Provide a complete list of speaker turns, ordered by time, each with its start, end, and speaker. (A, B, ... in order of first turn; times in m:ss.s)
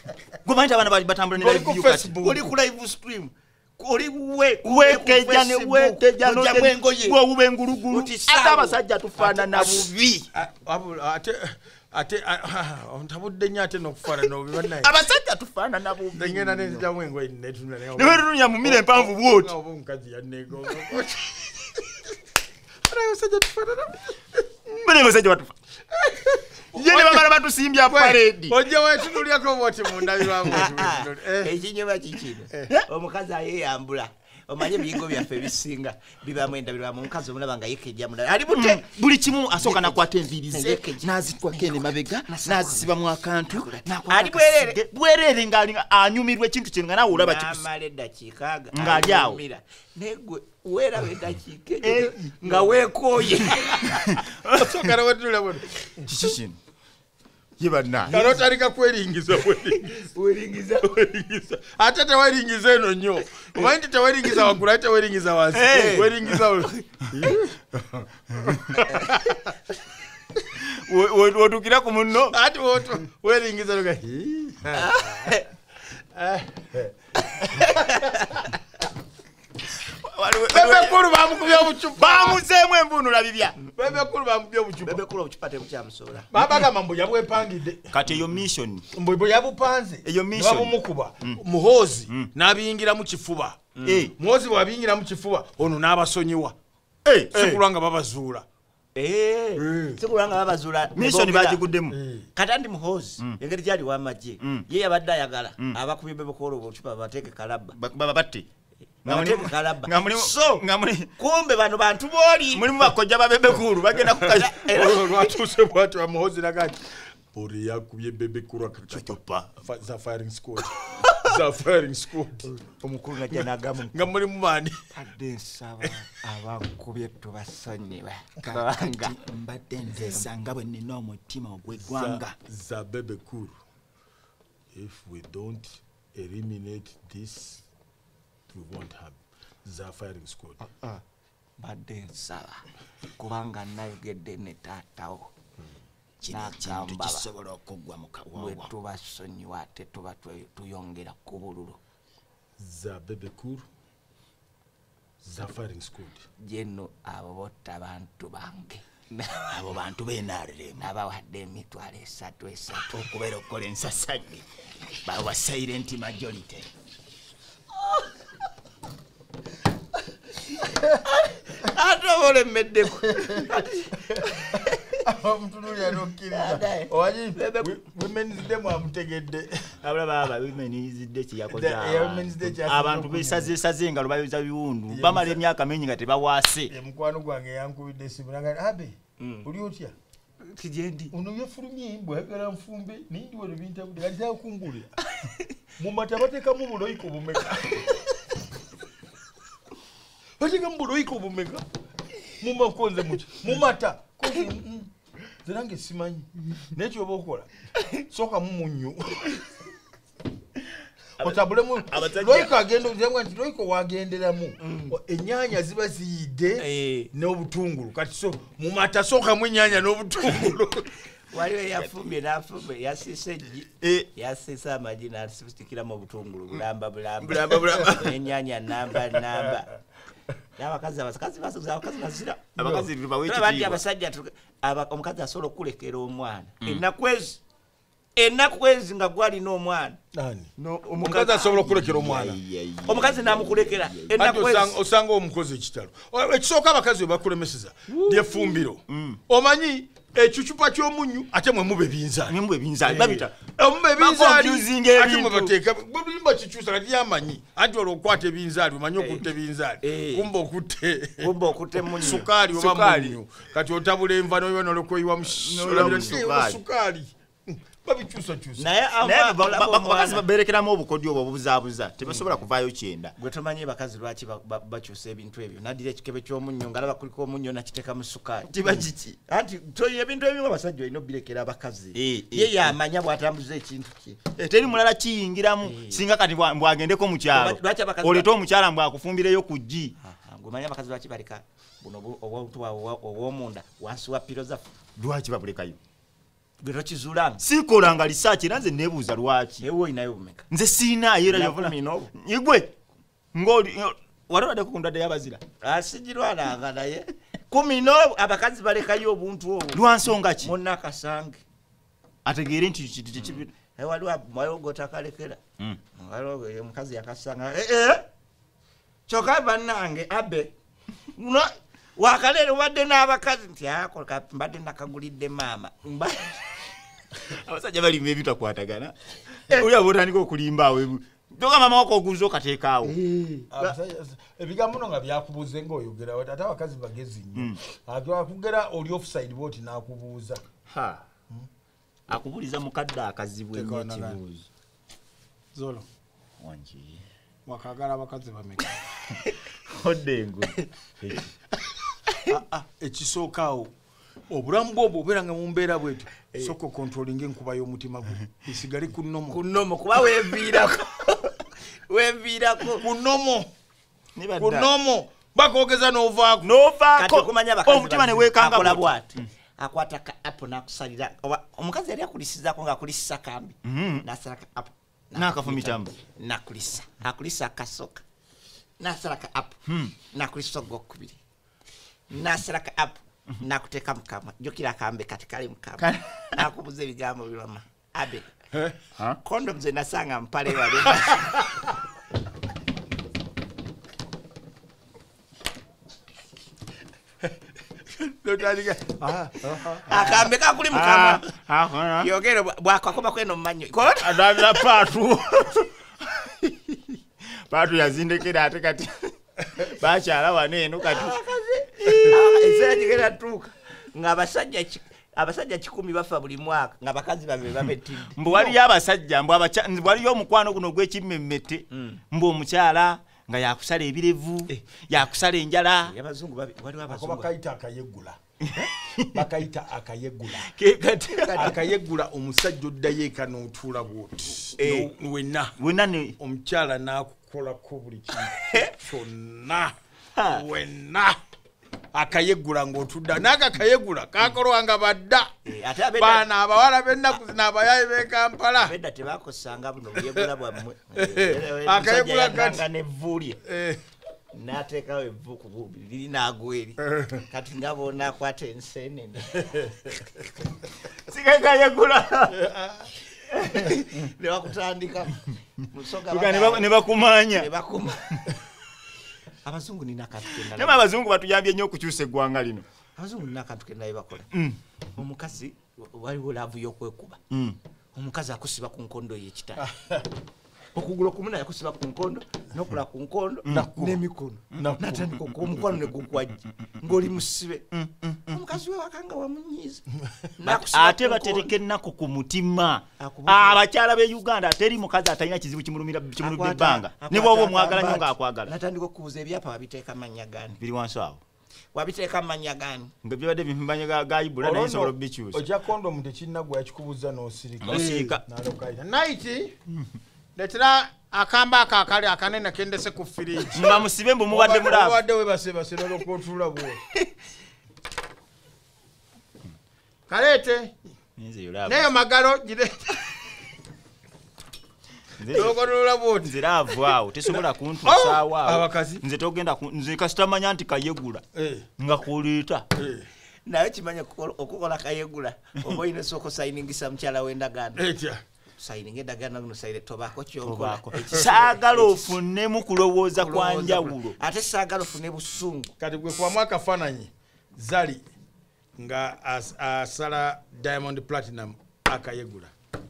0:00.4-0:02.2 A
0:01.4-0:02.5 B
0:02.2-0:07.2 C
0:04.6-0:10.3 A
0:07.9-0:08.8 C
0:09.2-0:09.8 B
0:10.3-0:15.0 B
0:14.8-0:16.8 A
0:16.1-0:22.0 B
0:18.0-0:19.5 A
0:22.9-0:24.7 B
0:24.8-0:25.5 A
0:25.9-0:27.3 B
0:26.7-0:28.6 A
0:27.9-0:31.6 B
0:30.5-0:38.8 C
0:38.5-0:47.6 A
0:39.5-0:42.9 C
0:43.5-0:44.8 C
0:47.1-0:54.0 C
0:48.7-0:49.4 A
0:51.8-0:52.1 A
0:52.3-0:52.7 B
0:53.8-0:54.9 A
0:54.5-0:56.1 B
0:56.0-0:56.6 A
0:57.6-0:58.4 A
0:58.1-1:00.0 B
0:59.8-1:00.9 C
1:00.8-1:09.5 B
1:05.5-1:06.8 C
1:10.5-1:12.4 A
1:12.2-1:15.3 B
1:14.8-1:15.5 C
1:16.1-1:18.4 B
1:17.6-1:18.4 C
1:19.8-1:23.6 A
1:20.5-1:22.4 B
1:23.7-1:25.0 B
1:24.8-1:26.3 C
1:26.3-1:27.9 B
1:27.9-1:28.8 A
1:28.9-1:33.6 B
1:30.0-1:31.4 A
1:33.8-1:34.1 C
1:33.8-1:34.1 A
1:34.2-1:36.6 B
1:37.0-1:37.6 A
1:37.3-1:38.4 B
1:38.9-1:41.6 C
1:39.6-1:40.0 B
1:40.9-1:42.0 A
1:41.9-1:42.3 B
1:42.3-1:47.8 C
1:44.4-1:44.6 A
1:47.7-1:48.4 A
1:49.0-1:50.6 C
1:49.0-1:51.1 A
1:51.2-1:52.7 C
1:52.5-1:54.6 A
1:54.0-2:02.5 B
1:54.3-1:55.3 C
1:58.8-1:59.5 A
2:02.4-2:04.1 C
2:03.3-2:04.8 B
2:04.9-2:09.2 C
2:08.4-2:12.4 A
2:09.9-2:10.2 C
2:11.8-2:13.5 B
2:14.7-2:17.6 B
2:18.5-2:20.6 B
2:20.7-2:21.0 C
2:21.6-2:22.6 C
2:23.2-2:25.3 C
2:26.2-2:28.7 A
2:26.3-2:27.2 C
2:28.3-2:31.8 C
2:32.6-2:33.6 B
2:35.2-2:36.2 B
2:36.4-2:39.6 C
2:39.4-2:40.9 A
2:40.8-2:42.9 C
2:42.7-2:44.4 A
2:45.0-2:46.7 A
2:51.1-2:55.0 C
2:53.1-2:53.4 B
2:54.1-2:59.8 B
2:56.3-2:57.7 C
2:59.8-3:06.7 A
3:01.5-3:03.6 B
3:04.9-3:05.4 B
3:06.7-3:09.9 B
3:09.2-3:09.5 C
3:10.4-3:11.1 C
3:11.1-3:14.9 B
3:15.8-3:18.1 B
3:20.4-3:21.6 B
3:22.4-3:24.9 B
3:25.4-3:27.5 B
3:28.1-3:29.4 B
3:31.2-3:40.9 B
3:31.2-3:32.5 A
3:34.6-3:34.9 C
3:36.6-3:37.1 C
3:41.3-3:49.7 C
3:43.8-3:44.1 A
3:47.2-3:48.1 A
3:47.4-3:48.0 B
3:50.6-3:52.6 C
3:52.6-3:53.8 A
3:52.6-3:52.9 B
3:53.2-3:57.4 C
3:58.2-4:00.0 C
4:00.1-4:02.4 B
4:00.6-4:01.6 C
4:01.6-4:04.4 A
4:02.9-4:04.8 C
4:04.1-4:21.3 B
4:08.0-4:09.2 A
4:12.2-4:13.4 A
4:14.0-4:15.5 A
4:19.0-4:19.2 C
4:19.8-4:20.3 C
4:21.2-4:22.3 C
4:22.0-4:28.6 B
4:22.0-4:23.2 A
4:25.2-4:26.6 A
4:25.8-4:26.1 C
4:28.6-4:30.2 C
4:29.0-4:33.1 A
4:32.0-4:32.4 C
4:33.2-4:44.2 C
4:38.5-4:39.2 A
4:41.9-4:42.8 A
4:44.4-4:49.9 A
4:45.6-4:46.0 C
4:47.3-4:48.3 C
4:50.0-4:54.6 C
4:55.0-4:55.8 A
4:56.6-4:57.4 C
4:57.4-4:59.7 A
4:59.6-5:00.5 C
5:00.5-5:02.7 A
5:01.2-5:02.1 C
5:03.3-5:05.4 A
5:05.6-5:07.1 C
5:07.5-5:08.2 A
5:08.1-5:11.4 C
5:09.7-5:10.5 A
5:12.2-5:13.5 A
5:13.2-5:15.4 C
5:16.0-5:18.0 C
5:19.1-5:20.5 C
5:21.1-5:26.4 C
5:27.2-5:28.9 A
5:29.5-5:33.0 A
5:32.8-5:33.5 C
5:33.5-5:40.4 B
5:37.3-5:37.6 A
5:40.7-5:41.0 A
5:42.1-5:44.5 A
5:43.5-5:44.2 B
5:45.5-5:45.8 B
5:46.4-5:47.0 A
5:47.4-5:48.8 B
5:49.5-5:51.2 A
5:52.3-5:53.7 B
5:54.3-5:59.4 B
5:59.3-6:02.8 C
6:02.8-6:03.5 B
6:04.2-6:04.7 A
6:04.4-6:06.5 B
6:06.4-6:09.3 A
6:07.0-6:18.0 C
6:13.6-6:14.0 A
6:15.1-6:15.9 A
6:18.8-6:19.6 C
6:19.7-6:19.9 A
6:20.1-6:21.2 C
6:22.1-6:28.3 C
6:25.8-6:26.4 A
6:29.2-6:31.4 C
6:37.9-6:40.2 B
6:39.9-6:41.2 C
6:39.9-6:42.1 A
6:42.0-6:44.5 C
6:44.0-6:47.0 A
6:47.5-6:51.2 A
6:50.8-6:58.2 C
6:58.2-7:05.9 A
7:01.7-7:02.0 C
7:05.8-7:07.3 C
7:06.9-7:08.2 B
7:08.6-7:09.2 A
7:09.1-7:10.5 B
7:10.4-7:11.6 C
7:11.3-7:15.5 B
7:14.6-7:14.9 C
7:15.6-7:16.2 A
7:16.2-7:21.2 B
7:18.4-7:18.7 C
7:21.9-7:25.3 B
7:25.4-7:26.3 C
7:26.0-7:28.7 B
7:28.5-7:33.4 C
7:31.0-7:32.6 B
7:33.4-7:33.8 B
7:34.3-7:39.4 C
7:36.8-7:37.2 B
7:39.4-7:39.8 B
7:41.0-7:42.4 A
7:42.3-7:42.9 B
7:43.2-7:48.2 C
7:46.1-7:47.5 A
7:49.4-7:50.8 C
7:50.5-7:52.6 A
7:53.0-7:54.3 C
7:54.3-7:54.6 A
7:54.9-7:57.2 C
7:57.3-7:57.6 A
7:57.9-7:59.7 C
7:59.6-8:00.1 B
8:00.7-8:07.6 C
8:03.4-8:04.0 A
8:03.5-8:04.0 B
8:04.5-8:05.1 B
8:04.5-8:05.5 A
8:07.7-8:08.4 A
8:08.2-8:09.8 C
8:10.4-8:11.5 C
8:10.4-8:18.5 A
8:13.0-8:13.6 C
8:16.2-8:20.6 C
8:20.6-8:21.2 A
8:21.7-8:22.9 C
8:23.0-8:25.4 A
8:24.4-8:29.5 B
8:27.6-8:28.2 A
8:30.4-8:33.8 B
8:33.5-8:35.0 A
8:34.3-8:36.8 B
8:40.1-8:40.7 B
8:41.2-8:41.8 A
8:41.6-8:43.0 B
8:45.2-8:45.6 A
8:45.3-8:46.3 B
8:46.2-8:51.2 A
8:47.3-8:49.0 B
8:51.3-8:51.7 B
8:51.8-8:52.6 A
8:52.7-8:53.1 B
8:53.4-8:57.8 C
8:57.8-8:58.2 B
8:58.6-9:02.2 C
9:00.4-9:04.2 A
9:03.1-9:05.7 C
9:05.8-9:08.0 B
9:08.8-9:12.5 B